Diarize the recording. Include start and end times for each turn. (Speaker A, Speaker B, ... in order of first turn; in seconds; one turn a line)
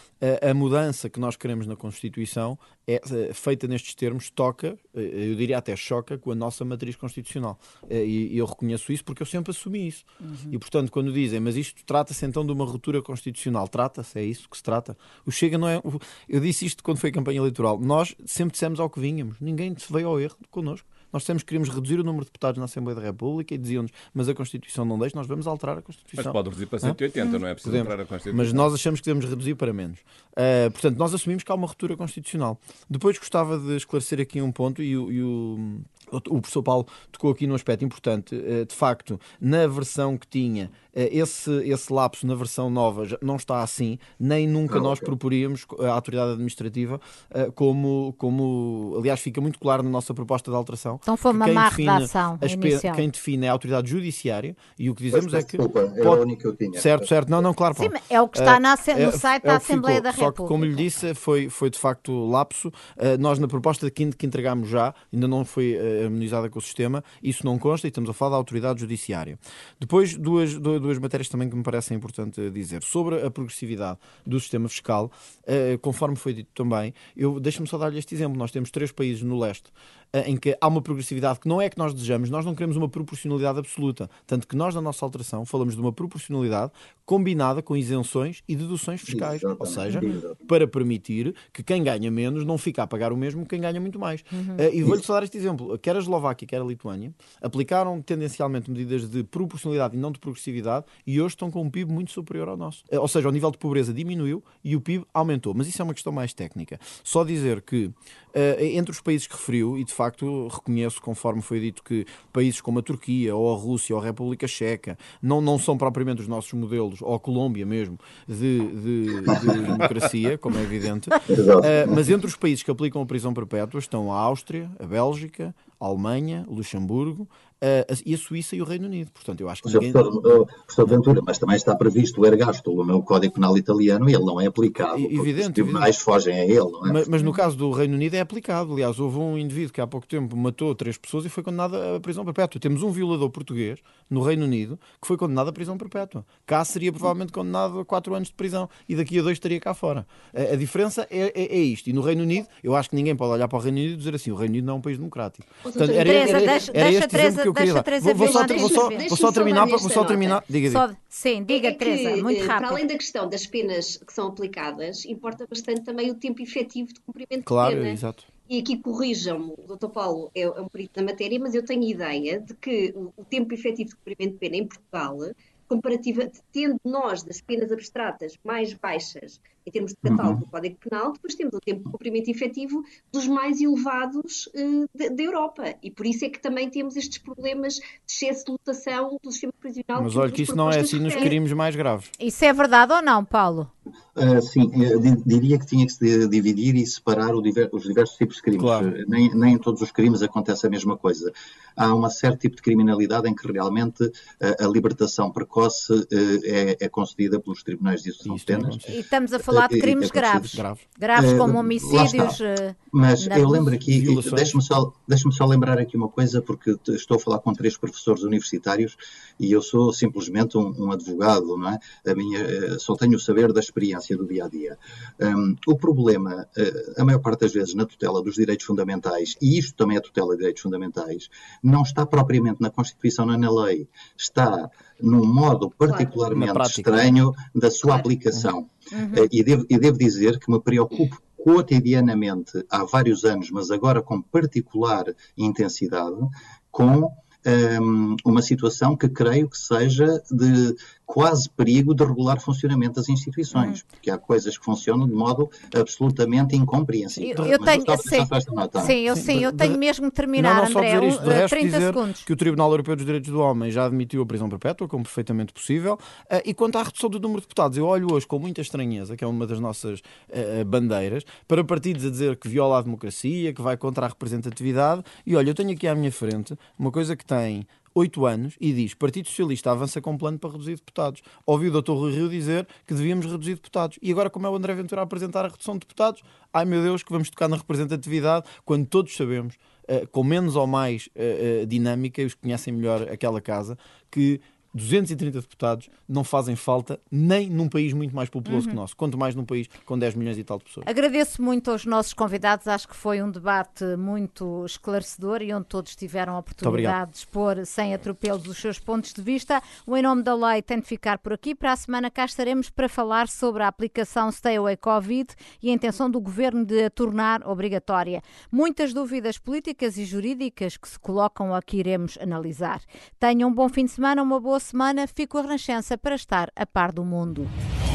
Speaker A: 0.2-27.0
Speaker B: 10.2-10.6
Speaker C: 26.2-28.7
Speaker A: 27.6-56.2
Speaker D: 44.7-45.1
Speaker B: 51.1-53.1
Speaker D: 55.1-57.1
Speaker A: 56.7-130.0
Speaker B: 57.8-60.8
Speaker D: 89.1-90.5
Speaker B: 89.9-90.2
Speaker B: 94.3-94.6
Speaker D: 119.3-119.8
Speaker D: 121.3-122.1
Speaker D: 129.7-137.1
Speaker A: 134.9-135.9
Speaker A: 136.8-160.9
Speaker B: 137.2-137.4
Speaker E: 155.7-156.7
Speaker B: 156.0-159.1
Speaker E: 158.2-160.4
Speaker B: 160.7-162.8
Speaker E: 161.5-191.3
Speaker A: 167.4-168.3
Speaker D: 180.1-180.4
Speaker A: 190.0-192.1
Speaker B: 192.2-193.7
Speaker D: 194.2-210.6
Speaker A: 198.6-198.9
Speaker A: 208.2-208.9
Speaker B: 208.9-213.7
Speaker A: 210.5-210.8
Speaker D: 211.2-212.4
Speaker D: 212.9-259.0
Speaker A: 213.8-214.6
Speaker E: 235.9-236.2
Speaker A: 236.3-237.2
Speaker B: 238.9-239.3
Speaker B: 253.5-253.8
Speaker B: 257.2-262.3
Speaker A: 259.1-259.8
Speaker A: 260.4-300.9
Speaker B: 298.5-298.8
Speaker B: 300.9-327.5
Speaker A: 306.6-307.0